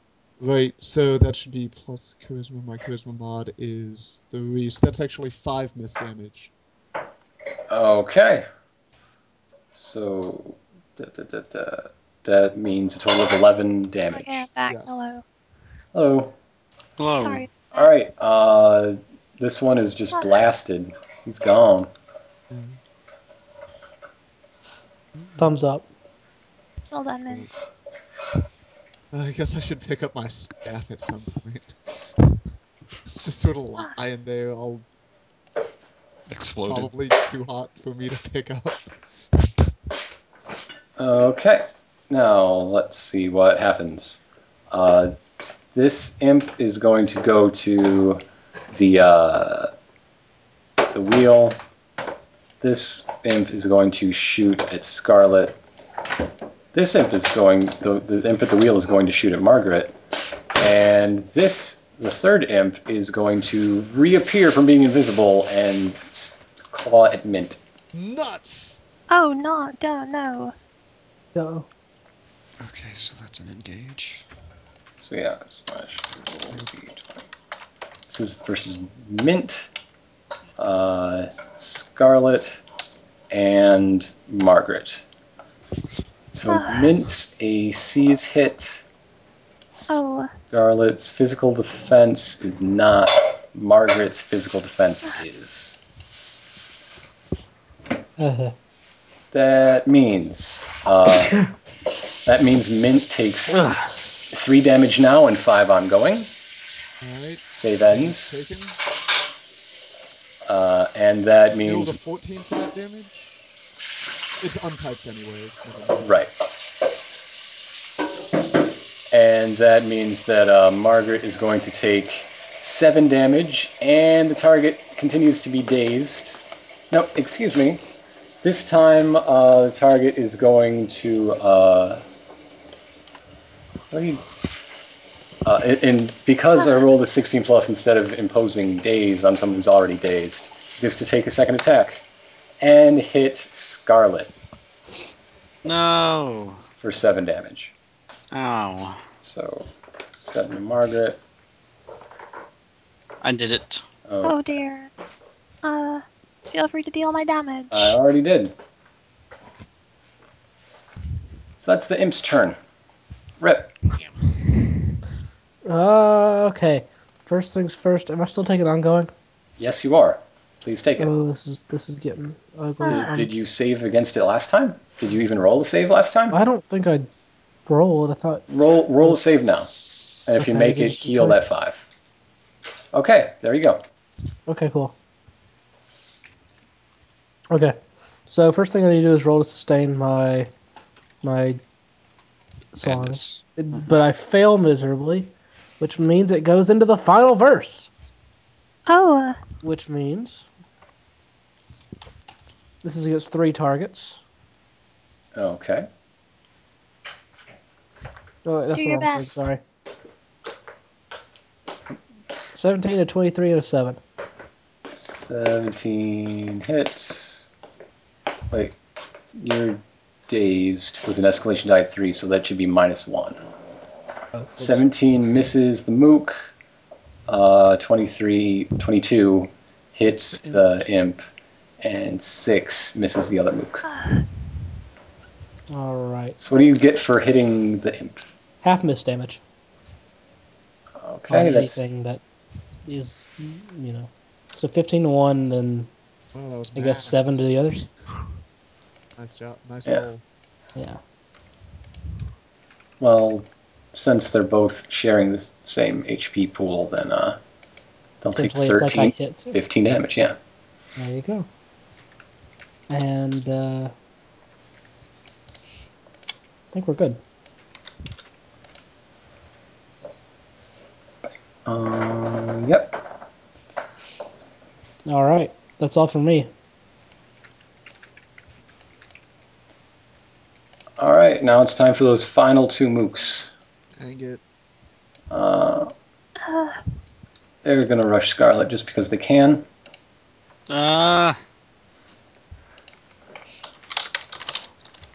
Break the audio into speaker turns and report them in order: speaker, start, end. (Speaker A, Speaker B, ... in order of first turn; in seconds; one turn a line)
Speaker A: 0.4-6.5
Speaker B: 7.7-8.4
Speaker B: 9.7-14.4
Speaker C: 14.1-15.2
Speaker A: 14.7-15.2
Speaker B: 15.9-16.3
Speaker D: 17.0-17.5
Speaker C: 17.1-18.0
Speaker B: 17.7-21.9
Speaker A: 22.5-22.8
Speaker E: 25.4-25.9
Speaker C: 26.9-27.6
Speaker A: 27.3-27.5
Speaker A: 29.1-32.4
Speaker A: 33.0-34.9
Speaker F: 36.3-36.9
Speaker A: 36.6-39.0
Speaker B: 41.0-44.2
Speaker B: 44.7-45.1
Speaker B: 45.7-48.2
Speaker B: 48.7-49.7
Speaker B: 50.9-51.6
Speaker B: 52.6-55.6
Speaker B: 56.7-59.9
Speaker B: 60.5-67.6
Speaker A: 67.9-68.8
Speaker C: 69.1-70.5
Speaker E: 71.3-71.7
Speaker F: 72.6-74.2
Speaker B: 75.0-77.2
Speaker B: 78.1-79.7
Speaker B: 80.6-82.6
Speaker B: 83.3-85.0
Speaker B: 86.3-88.8
Speaker C: 86.5-86.9
Speaker B: 89.7-95.8
Speaker C: 89.9-90.3
Speaker E: 98.2-98.5
Speaker B: 99.3-101.4
Speaker B: 102.2-103.7
Speaker B: 104.3-106.3
Speaker A: 107.0-108.8
Speaker B: 107.5-108.4
Speaker B: 110.5-111.9
Speaker A: 111.6-113.3
Speaker A: 114.4-116.2
Speaker B: 116.0-116.3
Speaker B: 119.1-127.8
Speaker B: 128.4-132.0
Speaker B: 133.9-134.2
Speaker B: 135.4-142.0
Speaker B: 142.6-144.3
Speaker D: 145.6-146.6
Speaker B: 146.8-147.7
Speaker D: 148.3-149.0
Speaker B: 149.2-151.2
Speaker D: 153.2-153.8
Speaker B: 154.1-154.6
Speaker C: 154.2-154.9
Speaker C: 155.6-158.0
Speaker B: 157.7-158.5
Speaker B: 161.6-162.6
Speaker B: 163.4-163.7
Speaker A: 164.0-164.5
Speaker E: 165.7-169.1
Speaker B: 169.6-171.1
Speaker E: 171.0-173.3
Speaker C: 172.8-173.1
Speaker B: 172.8-176.4
Speaker E: 176.3-177.1
Speaker E: 177.7-178.4
Speaker B: 178.5-179.7
Speaker B: 180.2-181.8
Speaker E: 180.4-181.4
Speaker B: 182.9-183.8
Speaker E: 184.5-184.9
Speaker E: 187.5-187.8
Speaker E: 188.3-190.5
Speaker E: 191.2-191.6
Speaker E: 192.7-197.9
Speaker F: 192.8-193.4
Speaker C: 198.9-199.4
Speaker E: 199.6-200.4
Speaker E: 202.8-204.2
Speaker B: 205.3-205.9
Speaker E: 208.4-209.6
Speaker C: 208.7-209.4
Speaker E: 212.5-214.0
Speaker B: 214.9-217.5
Speaker B: 218.5-218.8
Speaker B: 219.3-223.4
Speaker E: 224.3-224.8
Speaker B: 224.6-226.4
Speaker B: 227.3-231.2
Speaker B: 231.8-233.8
Speaker C: 233.9-234.2
Speaker E: 235.7-236.4
Speaker B: 236.4-238.2
Speaker E: 238.6-239.4
Speaker B: 241.0-241.8
Speaker E: 241.3-242.2
Speaker E: 242.8-245.9
Speaker A: 246.3-247.4
Speaker E: 246.7-247.9
Speaker A: 249.2-250.2
Speaker B: 253.0-257.4
Speaker B: 258.2-260.4
Speaker E: 258.3-259.6
Speaker E: 261.0-261.5
Speaker E: 262.9-263.9
Speaker E: 266.7-267.2
Speaker B: 271.6-273.0
Speaker E: 275.1-276.5
Speaker B: 281.0-283.5
Speaker A: 284.0-284.4
Speaker B: 285.3-285.9
Speaker C: 286.4-286.8
Speaker B: 287.6-289.6
Speaker D: 290.7-291.4